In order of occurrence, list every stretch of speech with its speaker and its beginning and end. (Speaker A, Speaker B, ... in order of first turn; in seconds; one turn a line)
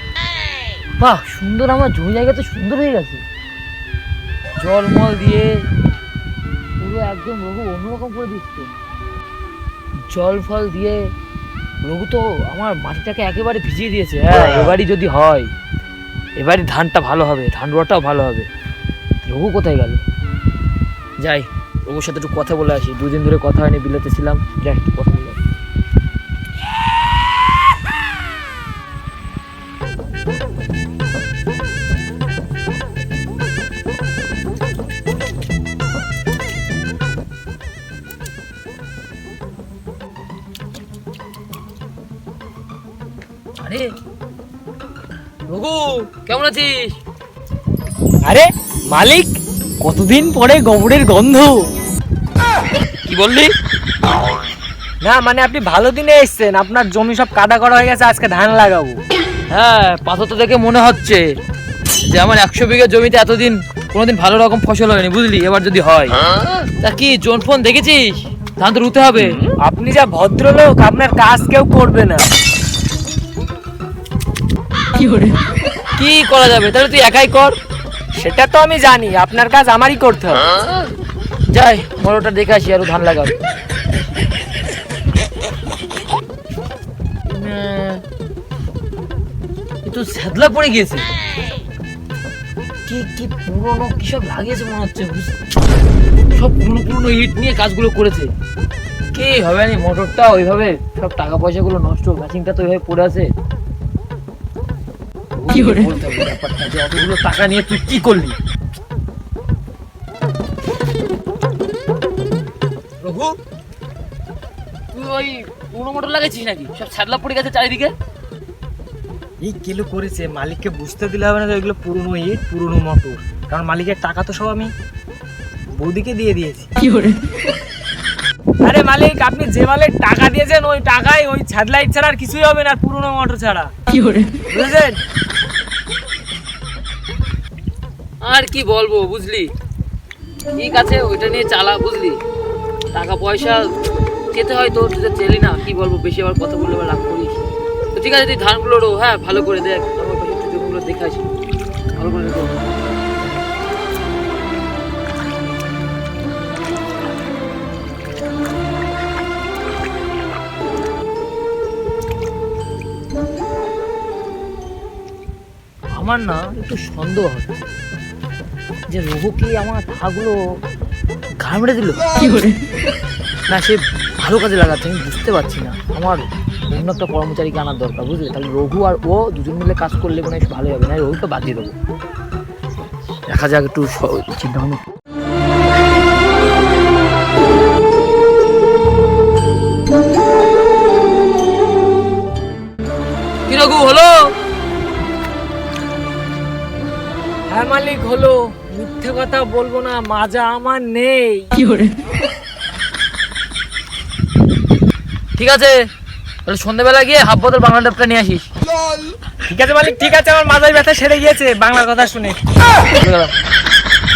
Speaker A: 1.0-3.2
Speaker A: 4.6-5.5
Speaker A: 6.8-8.7
Speaker A: 10.1-11.0
Speaker A: 11.8-15.5
Speaker A: 16.4-18.5
Speaker A: 19.2-20.0
Speaker A: 21.2-25.4
Speaker A: 43.6-43.9
Speaker A: 45.5-47.0
Speaker B: 48.3-51.6
Speaker A: 53.0-53.5
Speaker B: 55.0-59.0
Speaker A: 59.5-61.2
Speaker A: 62.1-69.5
Speaker B: 69.6-72.3
Speaker A: 75.0-75.3
Speaker A: 76.0-77.6
Speaker B: 78.2-80.5
Speaker A: 81.5-83.4
Speaker A: 87.3-88.0
Speaker A: 89.8-91.1
Speaker A: 92.9-95.3
Speaker A: 96.3-98.3
Speaker A: 99.1-103.3
Speaker A: 105.3-108.4
Speaker A: 113.0-113.4
Speaker A: 114.9-117.9
Speaker B: 119.4-124.7
Speaker B: 125.8-126.7
Speaker B: 128.6-133.7
Speaker B: 134.4-135.0
Speaker A: 138.2-139.5
Speaker A: 140.5-142.2
Speaker A: 142.9-143.6
Speaker A: 144.3-151.3
Speaker A: 152.0-152.6
Speaker A: 166.0-167.7
Speaker A: 168.9-170.4
Speaker A: 171.4-172.5
Speaker A: 173.5-181.7
Speaker A: 183.3-184.9
Speaker A: 193.5-194.3
Speaker B: 197.5-201.8
Speaker A: 205.4-205.8
Speaker A: 206.4-208.5
Speaker B: 209.5-212.4
Speaker A: 212.9-213.3